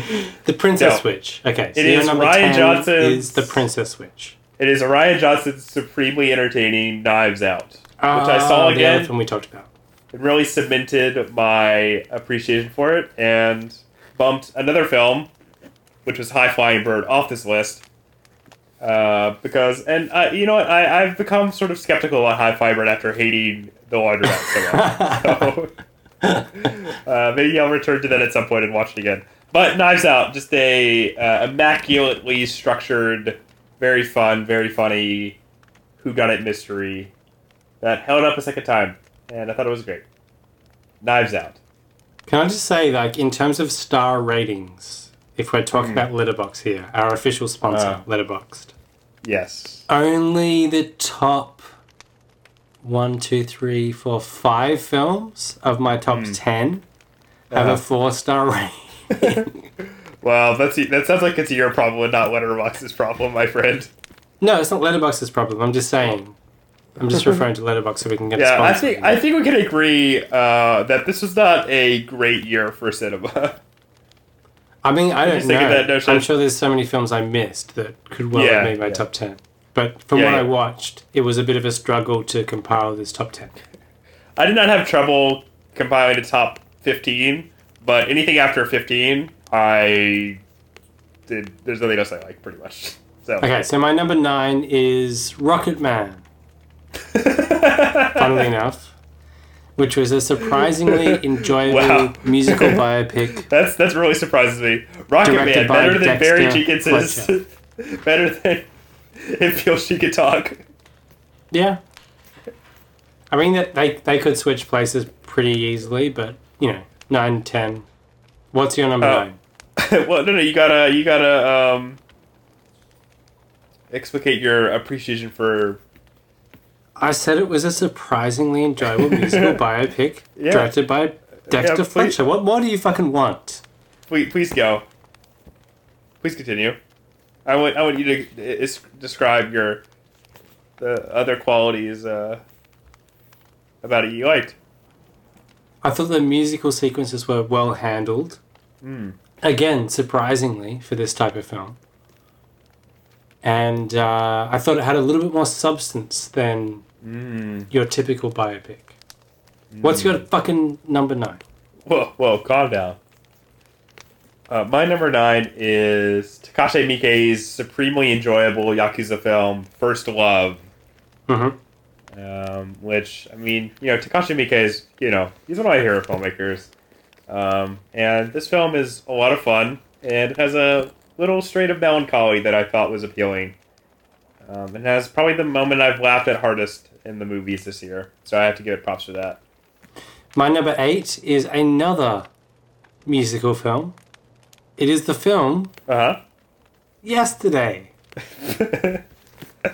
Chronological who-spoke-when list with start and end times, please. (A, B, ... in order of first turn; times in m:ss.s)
0:00.4-0:04.4 A
0:00.8-0:01.0 B
0:01.8-0:03.6 B
0:04.6-0:09.1 B
0:08.0-0:09.7 A
0:10.1-0:15.3 B
0:16.0-0:17.8 B
0:18.8-0:25.7 B
0:24.7-0:25.5 A
0:26.2-0:26.5 A
0:26.5-0:35.4 B
0:36.0-0:37.1 B
0:37.8-0:40.1 B
0:41.0-0:41.6 B
0:42.3-0:48.7 A
0:45.7-0:46.1 B
0:47.7-0:48.0 B
0:49.2-0:49.9 B
0:49.9-0:51.6 A
0:52.8-0:56.8 A
0:56.1-0:56.4 B
0:57.5-0:57.8 B
0:57.5-0:59.5 A
0:59.1-1:03.9 B
1:04.4-1:06.4 A
1:07.0-1:09.2 A
1:08.4-1:13.6 B
1:14.8-1:23.6 A
1:15.2-1:16.3 B
1:18.3-1:19.0 B
1:20.1-1:20.5 B
1:24.4-1:30.4 B
1:31.3-1:33.5 B
1:33.4-1:36.2 A
1:37.1-1:38.4 B
1:38.2-1:38.9 A
1:39.8-1:43.4 A
1:40.8-1:48.7 B
1:45.2-1:47.4 A
1:49.2-1:50.6 B
1:51.5-1:51.8 A
1:53.3-1:57.9 A
1:58.5-1:59.4 A
1:59.8-2:02.0 B
2:03.9-2:05.8 B
2:07.0-2:13.6 A
2:08.9-2:09.6 B
2:10.4-2:10.8 B
2:11.5-2:12.2 B
2:14.1-2:14.8 B
2:16.2-2:16.8 B
2:17.5-2:19.8 B
2:20.8-2:22.4 B
2:23.8-2:24.6 B
2:25.8-2:28.4 A
2:28.8-2:29.2 B
2:29.4-2:31.8 A
2:33.4-2:36.8 A
2:37.0-2:37.7 B
2:37.7-2:39.0 A
2:39.7-2:40.2 B
2:39.8-2:41.4 A
2:41.9-2:43.0 B
2:44.5-2:50.6 B
2:51.3-2:51.6 A
2:52.1-2:56.7 B
2:57.3-3:03.6 B
3:04.4-3:09.4 B
3:10.3-3:12.3 A
3:13.1-3:14.0 A
3:14.8-3:15.7 A
3:15.9-3:16.2 B
3:17.0-3:17.9 A
3:18.4-3:19.0 B